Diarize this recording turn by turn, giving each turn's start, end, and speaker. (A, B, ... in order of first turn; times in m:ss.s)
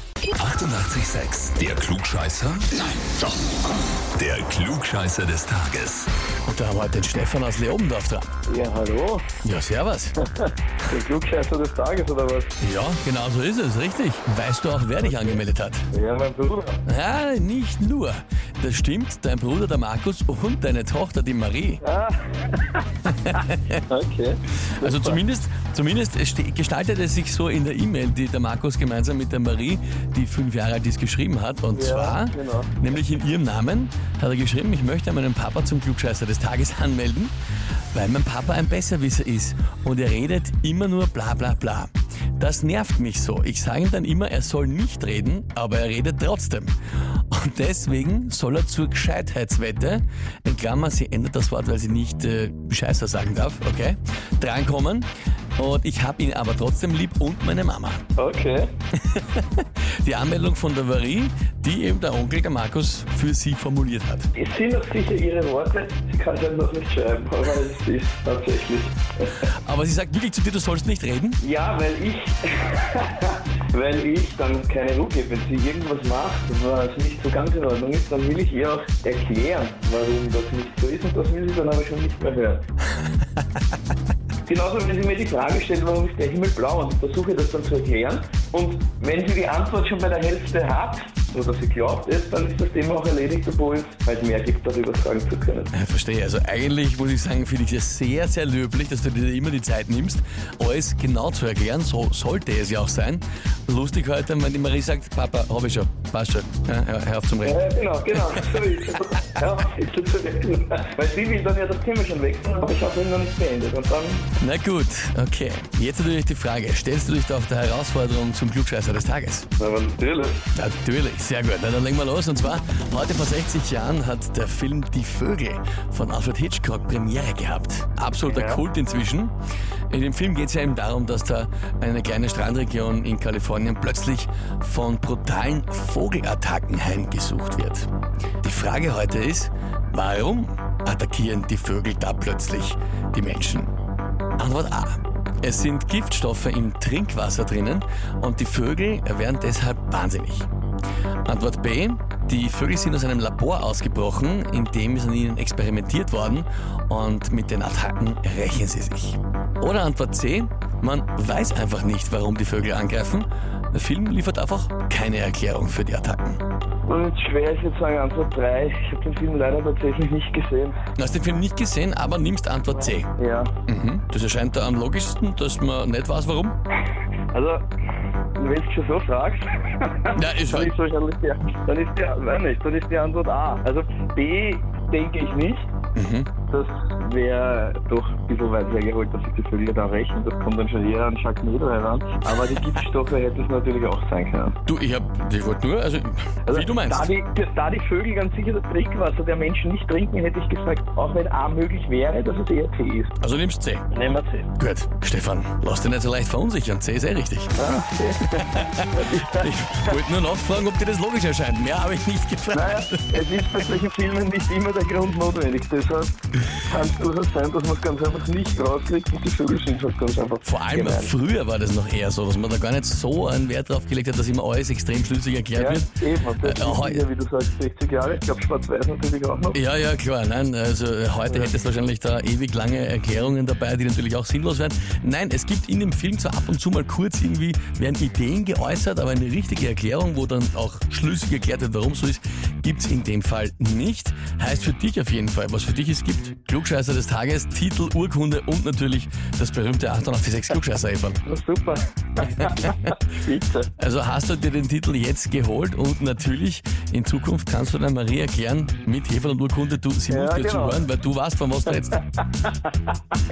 0:00.4-0:03.3 A
0:04.2-0:06.1 A
0:06.4-0:08.3 B
0:08.4-0:09.3 C
0:09.4-0:10.2 B
0:10.3-0:12.6 C
0:12.6-0:15.9 B
0:15.0-0:16.8 C
0:16.9-0:21.8 B
0:21.8-0:22.9 C
0:23.1-0:23.8 B
0:23.9-0:25.2 C
0:24.7-0:37.3 B
0:31.7-0:32.8 C
0:37.9-0:46.7 B
0:47.3-0:58.0 B
0:58.2-0:58.7 C
0:59.0-1:04.3 B
1:04.3-1:09.5 C
1:09.4-1:11.4 B
1:11.4-1:22.7 C
1:24.5-1:35.7 C
1:35.7-1:48.5 B
1:47.4-1:54.3 C
1:54.4-1:59.5 B
1:59.6-2:00.4 C
2:00.5-2:09.3 B
2:08.2-2:08.6 C
2:09.9-2:17.9 B
2:18.4-2:23.7 B
2:24.4-2:30.5 B
2:31.2-2:46.4 B
2:46.8-2:50.8 C
2:51.0-2:53.1 B
2:53.1-2:53.5 C
2:53.7-2:56.6 B
2:57.3-2:57.6 C
2:58.4-3:05.7 C
3:00.1-3:00.7 B
3:06.0-3:06.3 B
3:06.5-3:14.6 C
3:14.7-3:17.1 B
3:16.5-3:23.1 C
3:23.2-3:23.9 B
3:23.9-3:24.5 C
3:24.6-3:27.5 B
3:27.6-3:30.0 C
3:28.4-3:33.6 B
3:32.5-3:41.2 C
3:40.4-3:47.0 B
3:45.5-3:49.6 C
3:49.5-4:11.2 B
4:11.2-4:13.7 C
4:13.8-4:22.0 B
4:20.1-4:20.8 C
4:22.2-4:23.2 C